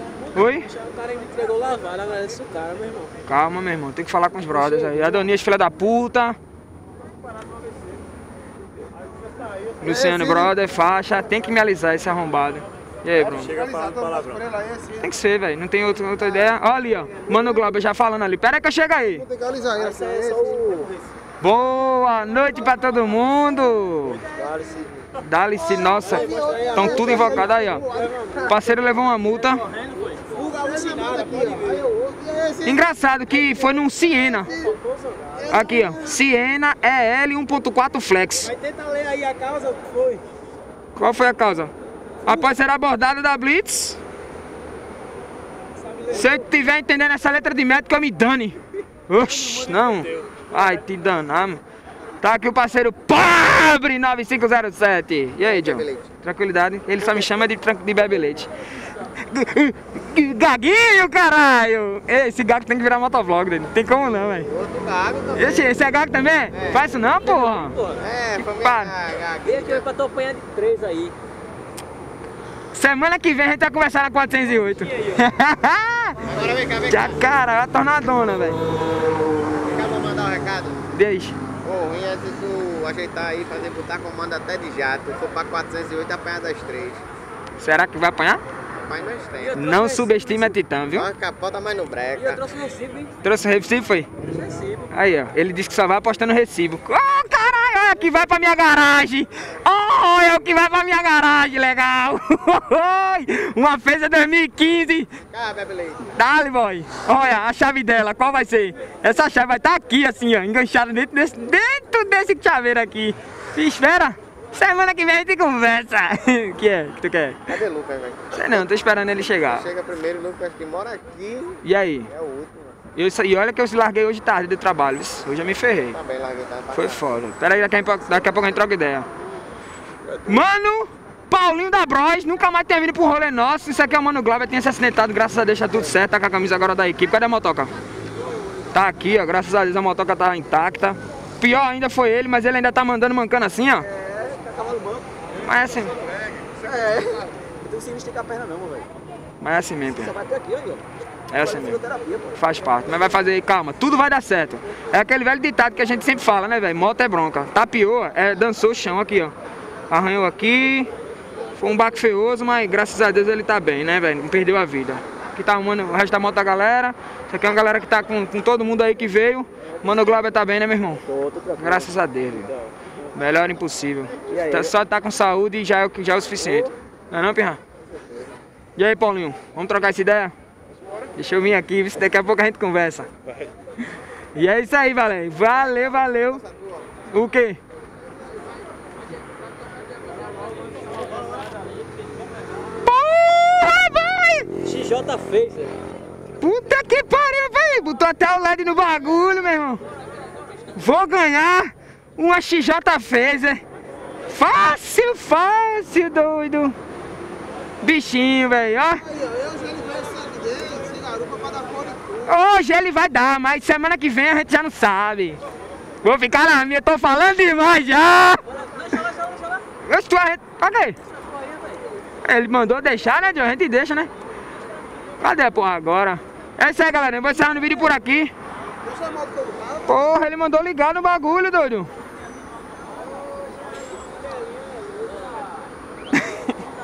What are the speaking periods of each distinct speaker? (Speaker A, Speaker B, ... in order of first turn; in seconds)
Speaker A: 0.3-0.8, 3.3-6.4, 9.8-13.6, 14.9-19.3, 21.4-24.3, 25.2-29.6, 32.6-34.6, 35.5-38.6, 41.0-41.7, 42.2-44.0, 46.1-48.6, 49.1-51.6, 52.2-58.5, 59.1-64.6, 65.3-67.8, 68.4-69.0, 72.7-78.6, 80.9-81.4, 87.6-88.4, 89.5-91.1, 93.2-94.1, 94.9-105.2, 106.1-117.6, 118.3-119.8, 121.6-122.1, 123.0-126.0, 126.7-129.1, 130.2-137.7, 138.7-143.9, 145.4-146.0, 149.4-150.2, 151.3-159.3, 159.9-160.9, 161.6-172.5, 173.1-177.6, 178.8-180.3, 181.2-183.1, 184.3-186.5, 187.1-187.6, 192.8-194.6, 196.4-199.8, 200.7-203.6, 204.3-206.8, 207.8-209.1, 212.2-215.4, 216.0-218.5, 219.8-221.0, 222.2-224.1, 225.2-228.3, 229.8-231.9
Speaker B: 0.8-3.1, 13.8-14.4, 19.7-20.9, 30.4-31.9, 38.6-40.2, 69.5-71.1, 92.4-93.1, 144.6-144.9, 146.7-148.8, 150.2-150.8, 171.2-171.6, 194.7-195.8
Speaker C: 64.6-65.3, 68.0-69.8, 76.4-76.9, 79.6-80.8, 81.6-87.0, 88.9-89.5, 91.1-92.4, 105.3-106.0, 117.5-118.3, 119.7-121.6, 122.2-122.6, 126.0-126.7